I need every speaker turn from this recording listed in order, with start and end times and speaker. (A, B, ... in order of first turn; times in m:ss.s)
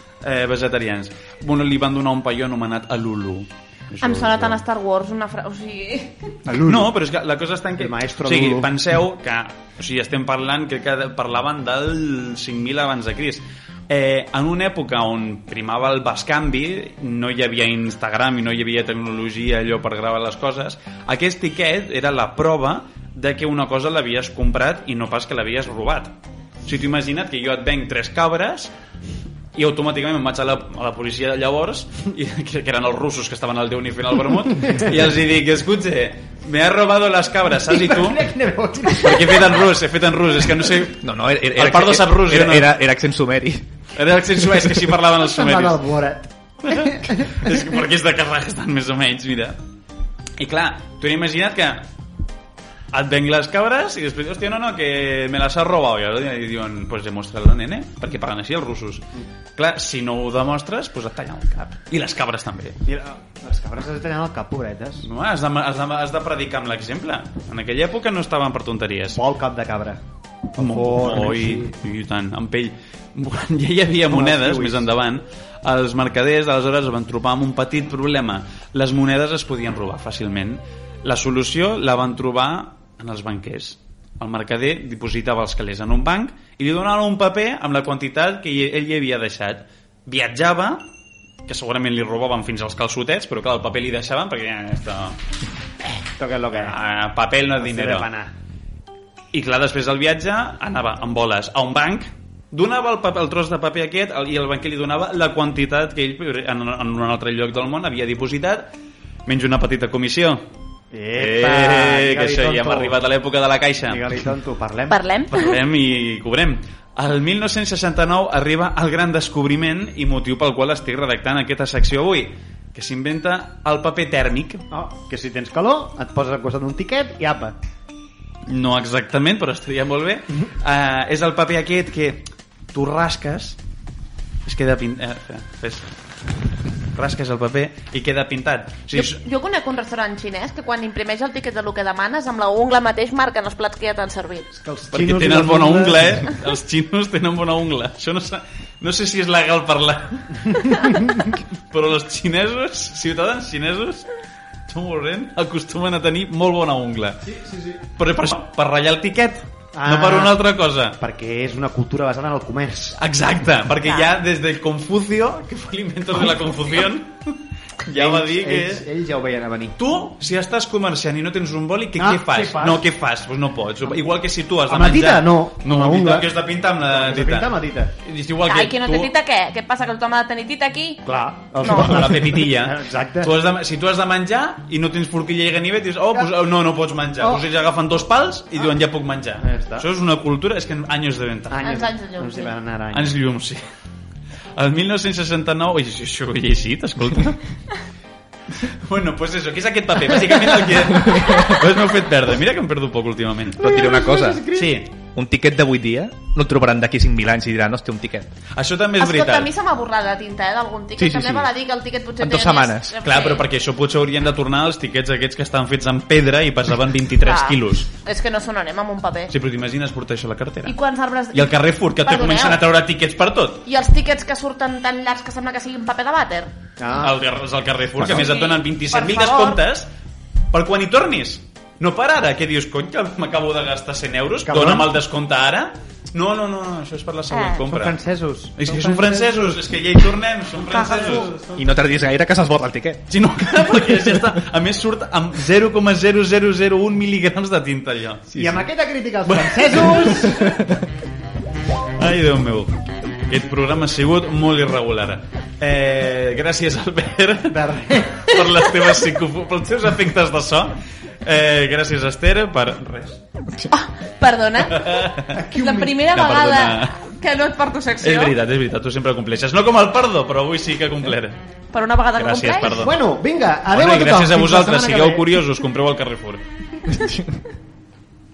0:00.2-0:04.6 A
0:04.0-0:06.4 B
0:06.4-0:06.9 C
0:06.6-0:28.7 A
0:07.8-0:08.7 C
0:29.5-0:38.2 A
0:37.6-0:39.7 C
0:38.9-0:41.0 A
0:40.9-0:43.7 D
0:41.5-0:42.7 A
0:43.9-0:45.8 A
0:45.1-0:47.6 C
0:46.6-0:49.6 A
0:50.4-0:51.9 A
0:52.9-1:02.8 A
1:02.8-1:05.1 C
1:05.0-1:09.2 A
1:09.1-1:10.0 C
1:10.6-1:11.7 C
1:10.6-1:30.9 A
1:14.1-1:14.9 C
1:31.4-1:35.2 A
1:36.2-1:36.8 C
1:36.5-1:38.1 A
1:37.6-1:38.3 C
1:39.3-1:48.7 A
1:49.2-1:50.4 A
1:50.9-1:53.0 C
1:51.1-1:54.2 A
1:53.9-1:55.0 C
1:54.9-1:55.6 B
1:55.3-2:04.6 A
2:04.7-2:07.6 C
2:08.5-2:13.6 A
2:14.4-2:15.9 A
2:16.9-2:19.2 A
2:18.9-2:24.5 B
2:24.5-2:26.3 C
2:24.9-2:31.0 A
2:30.5-2:31.3 C
2:31.7-2:34.1 A
2:34.7-2:37.2 A
2:37.2-2:37.8 C
2:37.8-2:41.0 A
2:39.7-2:43.0 C
2:43.0-2:48.8 A
2:43.8-2:44.1 B
2:47.9-2:49.8 C
2:49.8-2:59.1 A
2:52.0-2:52.8 C
2:54.7-2:57.9 C
2:58.5-3:01.0 B
3:01.0-3:03.3 C
3:01.6-3:02.1 B
3:01.6-3:11.7 A
3:07.2-3:07.5 C
3:09.4-3:09.9 C
3:11.5-3:13.2 C
3:11.6-3:12.5 B
3:12.9-3:13.6 A
3:14.6-3:17.4 A
3:18.5-3:23.8 A
3:23.5-3:28.3 D
3:23.6-3:24.8 C
3:24.5-3:24.9 A
3:28.5-3:29.5 A
3:29.0-3:33.4 B
3:31.0-3:31.5 D
3:32.2-3:33.0 D
3:33.0-3:37.9 A
3:37.2-3:39.3 B
3:39.3-3:40.8 A
3:40.6-3:42.6 B
3:41.3-3:43.6 A
3:43.6-3:46.5 B
3:46.8-3:47.2 C
3:47.0-3:49.9 A
3:48.0-3:49.6 B
3:50.5-3:58.0 A
3:54.4-3:55.0 C
3:57.3-3:57.6 B
3:57.6-3:59.8 C
3:58.6-4:01.3 A
4:00.6-4:01.8 C
4:01.5-4:03.0 D
4:03.1-4:08.3 A
4:08.3-4:08.6 D
4:08.3-4:10.5 C
4:09.3-4:10.5 A
4:10.4-4:10.8 D
4:12.0-4:23.2 A
4:17.5-4:18.6 C
4:23.7-4:28.4 B
4:24.6-4:25.4 A
4:25.3-4:26.0 C
4:26.1-4:27.0 A
4:28.0-4:31.4 A
4:31.7-4:32.9 B
4:32.1-4:33.0 A
4:32.6-4:35.4 C
4:33.7-4:36.4 A